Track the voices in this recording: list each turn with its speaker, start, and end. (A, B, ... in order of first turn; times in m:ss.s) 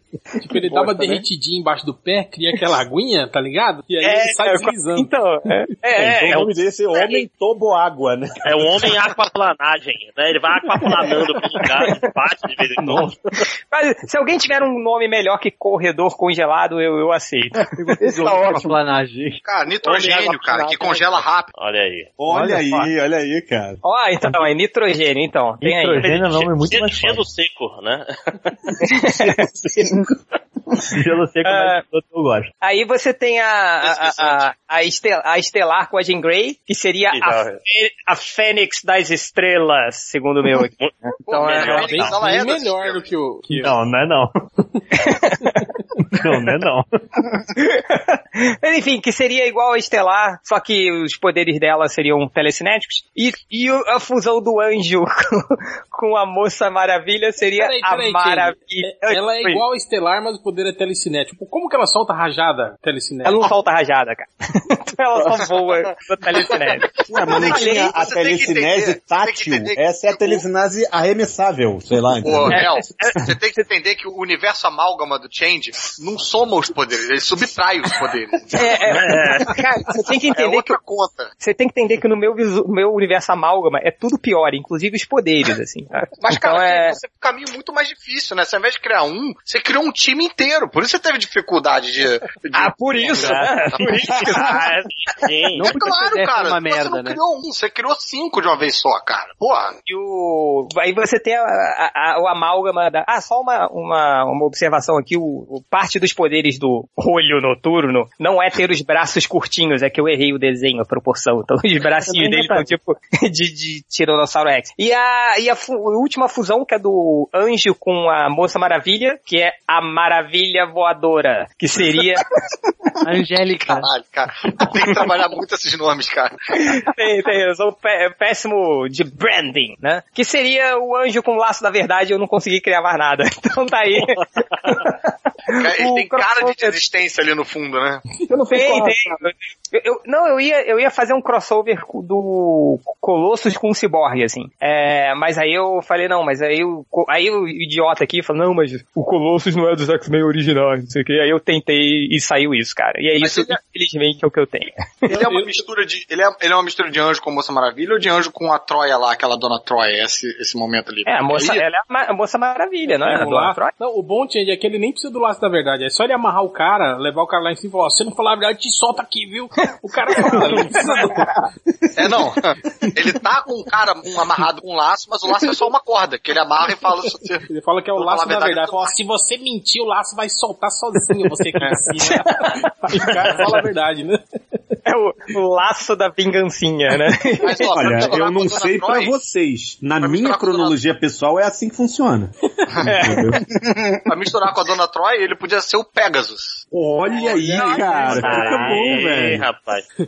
0:00.4-0:05.1 A
0:04.0-0:07.3 B
0:06.0-0:08.7 C
0:08.4-0:13.1 D
0:11.6-0:12.1 B
0:13.7-0:17.8 B
0:17.7-0:19.4 E
0:18.0-0:18.8 F
0:19.4-0:21.5 G
0:19.9-0:21.2 F
0:21.6-0:22.1 D
0:22.2-0:23.8 C
0:22.3-0:22.8 E
0:23.8-0:26.1 B
0:25.6-0:27.2 H
0:26.0-0:28.6 D
0:28.9-0:29.4 B
0:31.0-0:32.5 H
0:31.4-0:31.8 B
0:32.6-0:40.7 B
0:33.8-0:34.4 G
0:37.1-0:37.6 D
0:40.8-0:42.0 D
0:41.2-0:43.1 G
0:41.3-0:43.8 A
0:43.6-0:44.3 H
0:44.9-0:45.6 B
0:46.2-0:46.8 H
0:47.6-0:59.6 B
0:57.6-1:03.5 A
1:03.2-1:08.0 B
1:07.1-1:12.6 C
1:07.2-1:10.4 G
1:12.2-1:18.8 G
1:12.5-1:13.2 B
1:18.5-1:20.8 B
1:18.9-1:19.5 D
1:20.4-1:21.3 G
1:21.4-1:27.0 B
1:26.2-1:34.6 G
1:32.5-1:34.8 B
1:34.3-1:34.6 D
1:35.2-1:35.7 D
1:35.5-1:37.2 E
1:35.6-1:39.8 G
1:39.9-2:02.3 B
1:52.1-1:52.6 H
2:03.0-2:03.9 E
2:03.6-2:06.6 G
2:06.6-2:15.0 B
2:15.5-2:16.8 B
2:15.5-2:18.0 G
2:18.3-2:19.2 F
2:18.5-2:35.2 B
2:33.2-2:33.6 G
2:35.1-2:41.6 G
2:35.1-2:35.6 A
2:41.1-2:43.8 B
2:42.9-2:51.3 A
2:52.0-2:57.4 G
2:57.5-3:04.2 A
2:58.0-2:58.9 G
3:02.0-3:02.2 B
3:03.0-3:03.3 B
3:04.9-3:08.1 B
3:07.4-3:09.2 G
3:07.6-3:13.4 C
3:10.0-3:10.8 G
3:12.8-3:13.2 B
3:14.1-3:16.6 G
3:16.7-3:19.4 C
3:17.3-3:18.6 G
3:17.5-3:18.8 A
3:18.1-3:19.9 D